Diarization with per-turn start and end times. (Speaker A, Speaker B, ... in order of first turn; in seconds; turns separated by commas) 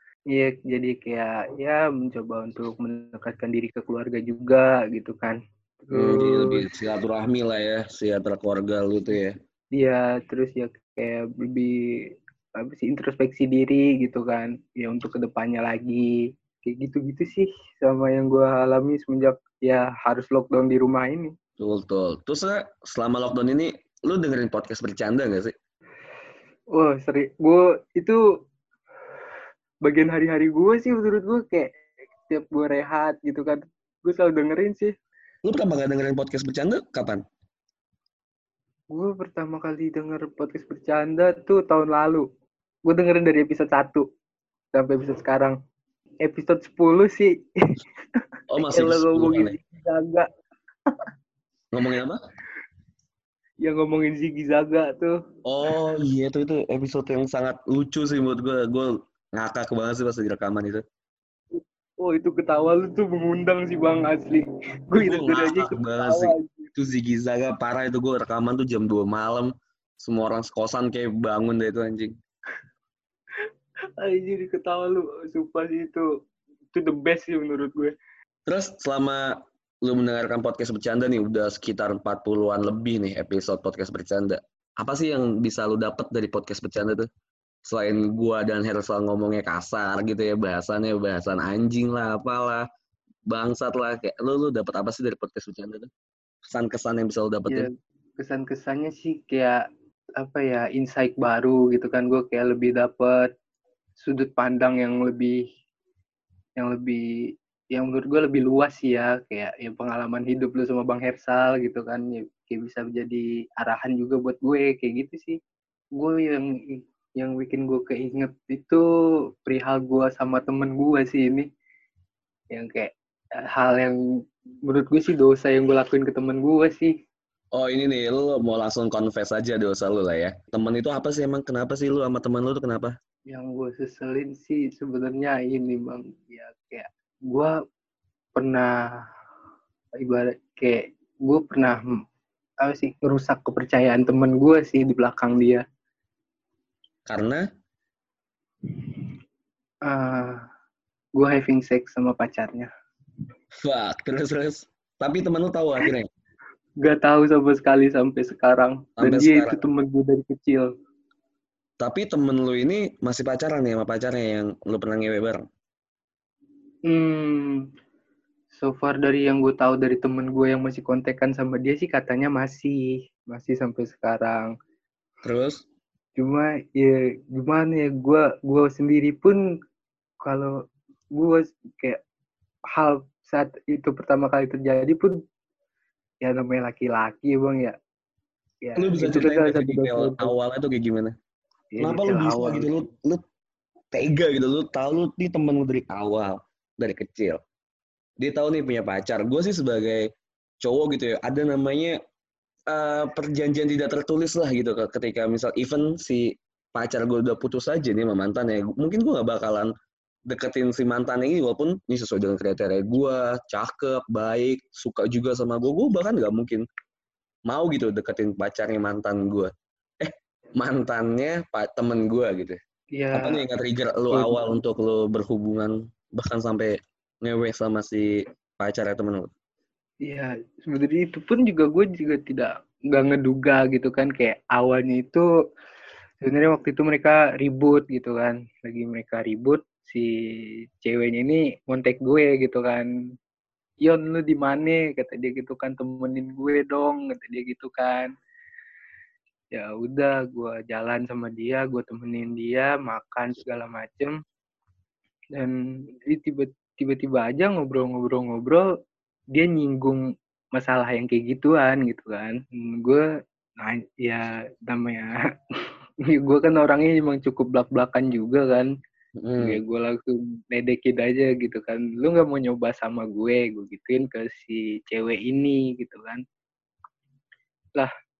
Speaker A: 0.3-6.7, Speaker B: 5.9-9.3, Speaker A: 9.7-11.7, Speaker A: 12.6-21.3, Speaker B: 21.6-25.5, Speaker A: 26.7-28.2, Speaker A: 29.8-31.8, Speaker A: 32.3-34.9, Speaker B: 35.4-37.2, Speaker A: 38.9-42.2, Speaker A: 42.9-44.0, Speaker A: 44.7-45.6, Speaker A: 46.2-47.8, Speaker B: 48.5-49.6, Speaker A: 48.6-50.3, Speaker B: 51.7-52.2, Speaker A: 53.6-55.1, Speaker B: 55.5-60.8, Speaker A: 61.5-66.7, Speaker B: 65.0-72.2, Speaker A: 74.0-76.1, Speaker A: 76.7-78.0, Speaker B: 78.5-87.1, Speaker B: 87.7-92.7, Speaker B: 93.3-95.9, Speaker B: 96.5-97.7, Speaker A: 97.5-99.6, Speaker A: 100.2-103.3, Speaker A: 104.0-105.4, Speaker A: 106.6-107.0, Speaker A: 107.7-115.4, Speaker A: 116.0-118.8, Speaker A: 119.4-121.5, Speaker A: 122.5-124.0, Speaker A: 124.6-126.9, Speaker B: 127.5-132.9, Speaker A: 133.3-137.5, Speaker A: 138.3-138.8, Speaker A: 140.0-141.8, Speaker A: 142.6-145.6, Speaker B: 147.1-147.4, Speaker A: 148.7-149.0, Speaker A: 149.8-150.4, Speaker A: 151.1-152.7, Speaker B: 153.6-156.1, Speaker A: 156.8-160.7, Speaker B: 159.0-159.6, Speaker B: 161.8-165.4, Speaker A: 166.9-167.7, Speaker A: 168.5-174.5, Speaker B: 175.2-175.6, Speaker A: 176.2-179.4, Speaker A: 180.2-180.5, Speaker A: 181.1-182.0, Speaker A: 182.7-185.1, Speaker A: 186.2-187.8, Speaker A: 188.6-190.3, Speaker B: 188.8-191.1, Speaker A: 191.7-192.7, Speaker B: 191.8-193.2, Speaker B: 193.9-197.4, Speaker B: 198.2-200.1, Speaker B: 200.6-202.0, Speaker B: 202.7-209.7, Speaker B: 210.3-216.6, Speaker B: 217.5-222.6, Speaker A: 222.9-223.4, Speaker B: 223.1-229.3, Speaker A: 224.1-224.6, Speaker A: 230.0-235.3, Speaker A: 236.2-240.1, Speaker A: 240.8-242.9, Speaker A: 243.8-248.1, Speaker A: 249.5-254.1, Speaker A: 255.3-258.6, Speaker A: 259.3-260.0, Speaker A: 260.5-263.0, Speaker A: 263.6-265.1, Speaker A: 266.1-268.7, Speaker B: 269.1-269.6, Speaker A: 269.4-276.2